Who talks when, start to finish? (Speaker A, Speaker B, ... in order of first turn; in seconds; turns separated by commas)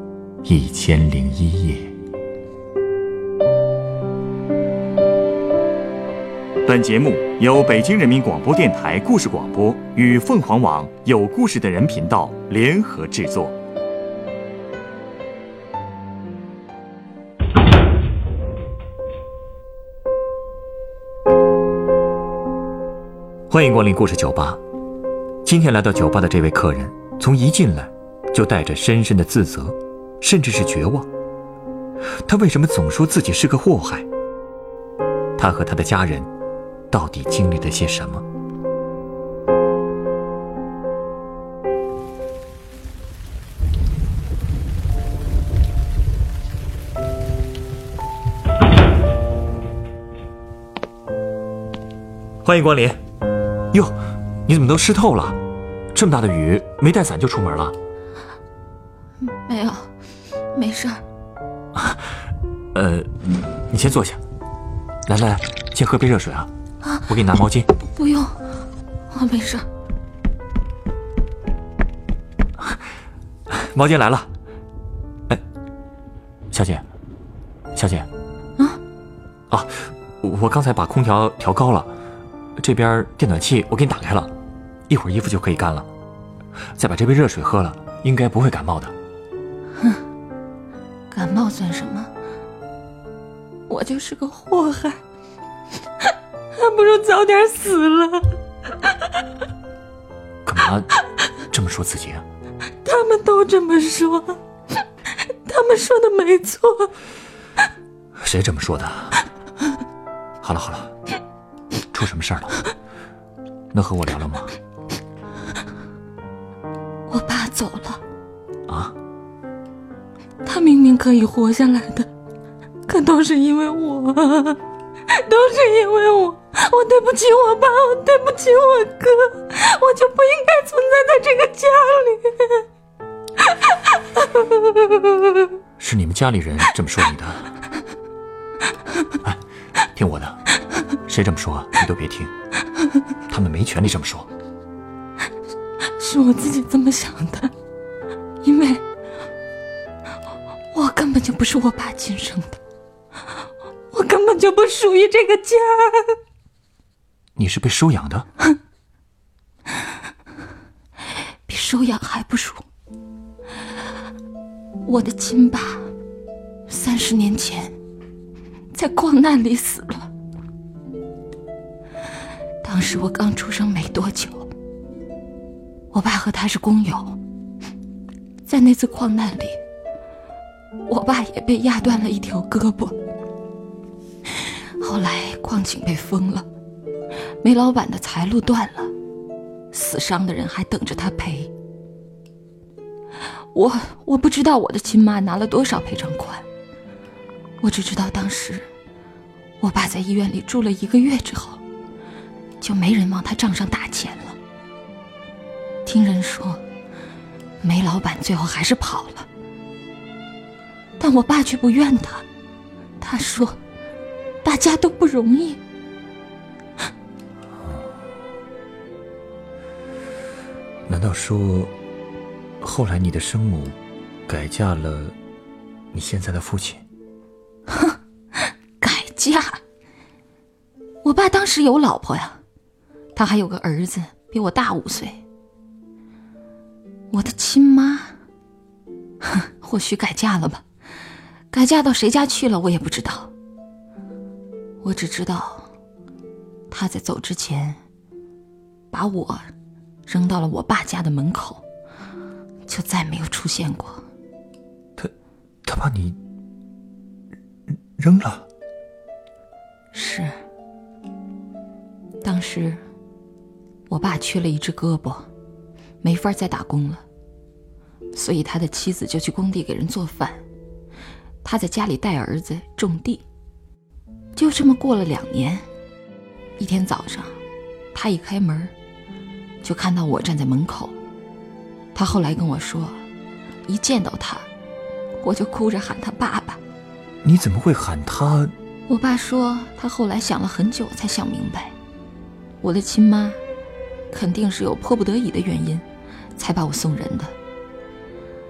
Speaker A: 0.5-1.9, Speaker A: 6.7-13.6, Speaker A: 23.5-24.6, Speaker A: 25.4-31.1, Speaker A: 32.3-34.1, Speaker A: 35.4-36.3, Speaker A: 36.9-38.3, Speaker A: 52.4-53.0, Speaker A: 53.7-55.4, Speaker A: 55.9-57.8, Speaker B: 59.2-59.9, Speaker B: 60.5-61.0, Speaker A: 61.8-62.1, Speaker A: 62.7-63.1, Speaker A: 63.7-64.2, Speaker A: 65.1-66.5, Speaker A: 67.1-67.7, Speaker B: 67.9-69.7, Speaker A: 73.5-74.3, Speaker A: 76.5-76.8, Speaker A: 77.8-78.1, Speaker A: 79.5-81.9, Speaker A: 82.6-84.3, Speaker A: 84.9-85.9, Speaker A: 86.7-89.0, Speaker B: 89.8-90.0, Speaker B: 91.1-92.1, Speaker B: 93.7-95.0, Speaker B: 96.5-98.3, Speaker A: 100.5-100.9, Speaker A: 101.5-102.3, Speaker B: 102.8-104.4, Speaker B: 105.3-106.9, Speaker A: 108.2-109.2, Speaker A: 110.4-110.9, Speaker A: 111.9-112.6, Speaker A: 113.7-114.6, Speaker B: 117.1-118.0, Speaker A: 118.7-118.9, Speaker B: 120.4-122.1, Speaker B: 122.9-132.7, Speaker B: 133.7-135.5, Speaker A: 135.8-137.5, Speaker A: 139.9-140.4, Speaker A: 141.1-142.3, Speaker A: 143.3-144.3, Speaker B: 146.0-147.5, Speaker B: 148.4-148.8, Speaker B: 150.7-152.6, Speaker B: 153.9-156.2, Speaker A: 157.4-158.3, Speaker B: 161.5-162.6, Speaker B: 164.8-165.9, Speaker B: 166.7-167.8, Speaker B: 168.7-170.1, Speaker B: 172.6-174.5, Speaker B: 175.9-177.2, Speaker B: 178.5-179.6, Speaker B: 180.9-183.0, Speaker B: 184.3-186.5, Speaker B: 187.4-188.9, Speaker B: 189.7-191.5, Speaker B: 193.5-196.5, Speaker B: 197.6-198.7, Speaker B: 199.6-201.6, Speaker B: 202.6-204.4, Speaker B: 205.8-206.6, Speaker B: 207.6-209.3, Speaker B: 211.0-212.2, Speaker B: 213.0-213.6, Speaker B: 214.4-215.6, Speaker A: 217.6-217.9, Speaker A: 220.9-221.7, Speaker A: 222.6-225.2, Speaker A: 225.9-226.8, Speaker B: 227.7-228.0, Speaker B: 228.8-229.6, Speaker B: 231.0-232.4, Speaker B: 233.2-235.2, Speaker B: 237.1-238.2, Speaker B: 239.2-240.6, Speaker B: 241.5-243.3, Speaker B: 244.8-245.7, Speaker B: 246.7-247.8, Speaker B: 248.9-249.5, Speaker B: 250.1-251.6, Speaker B: 252.7-254.0, Speaker A: 255.7-256.2, Speaker A: 258.0-258.5, Speaker B: 259.9-260.4, Speaker B: 262.2-262.9, Speaker B: 263.9-265.3, Speaker B: 266.0-267.0, Speaker B: 268.1-270.4, Speaker B: 271.4-273.2, Speaker B: 274.4-275.7, Speaker B: 276.6-277.4, Speaker B: 277.9-278.7, Speaker B: 279.6-281.0, Speaker B: 281.9-283.0, Speaker B: 283.7-284.5, Speaker B: 285.2-286.6, Speaker A: 287.2-288.5, Speaker B: 288.9-291.8, Speaker B: 292.6-293.4, Speaker B: 294.1-297.3